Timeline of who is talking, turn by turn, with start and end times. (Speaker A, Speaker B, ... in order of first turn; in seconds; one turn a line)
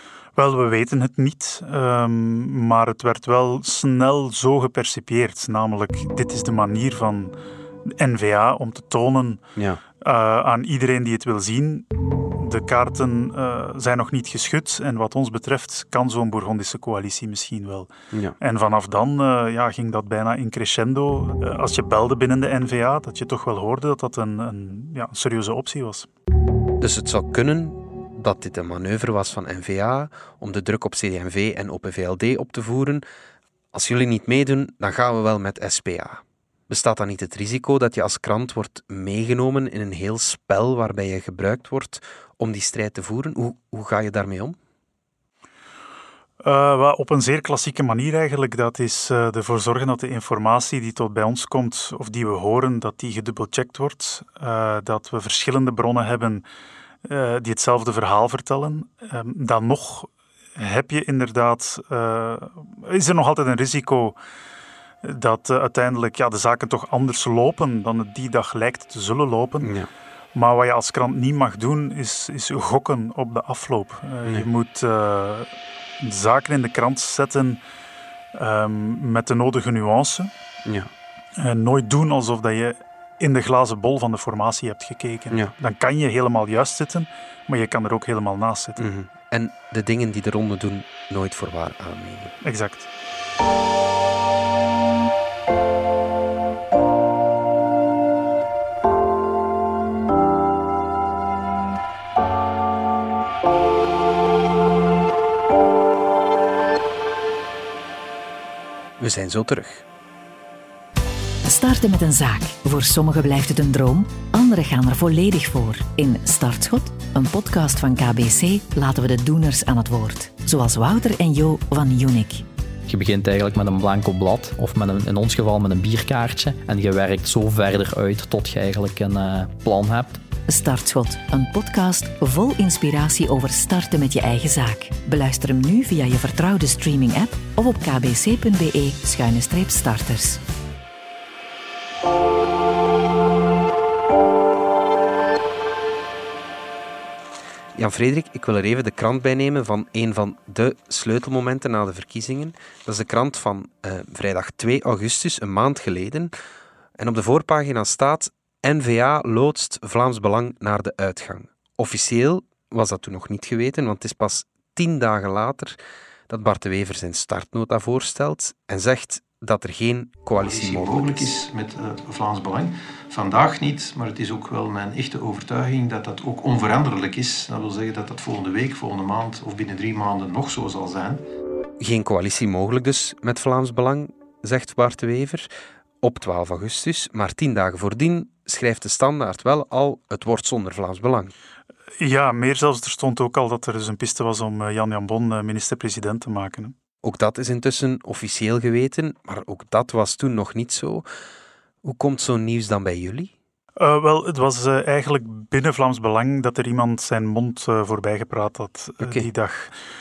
Speaker A: 0.3-9.4
Speaker B: 9.6-9.8
Speaker A: 10.0-26.1
Speaker B: 26.8-33.0
Speaker B: 33.7-44.6
Speaker A: 46.4-56.5
Speaker A: 57.0-64.2
Speaker A: 65.0-69.7
Speaker B: 69.6-69.9
Speaker A: 70.3-77.6
Speaker A: 78.3-80.3
Speaker B: 80.7-80.9
Speaker A: 81.3-88.8
Speaker B: 88.8-92.3
Speaker A: 92.4-92.9
Speaker B: 109.0-109.8
Speaker C: 111.5-122.4
Speaker D: 122.9-130.2
Speaker C: 130.5-140.4
Speaker B: 147.7-156.3
Speaker B: 157.0-165.8
Speaker B: 166.3-171.3
Speaker E: 170.4-181.2
Speaker B: 181.8-185.5
Speaker B: 186.0-191.3
Speaker A: 192.0-196.8
Speaker B: 197.0-201.0
Speaker B: 201.8-203.3
Speaker A: 203.8-209.7
Speaker B: 209.0-209.3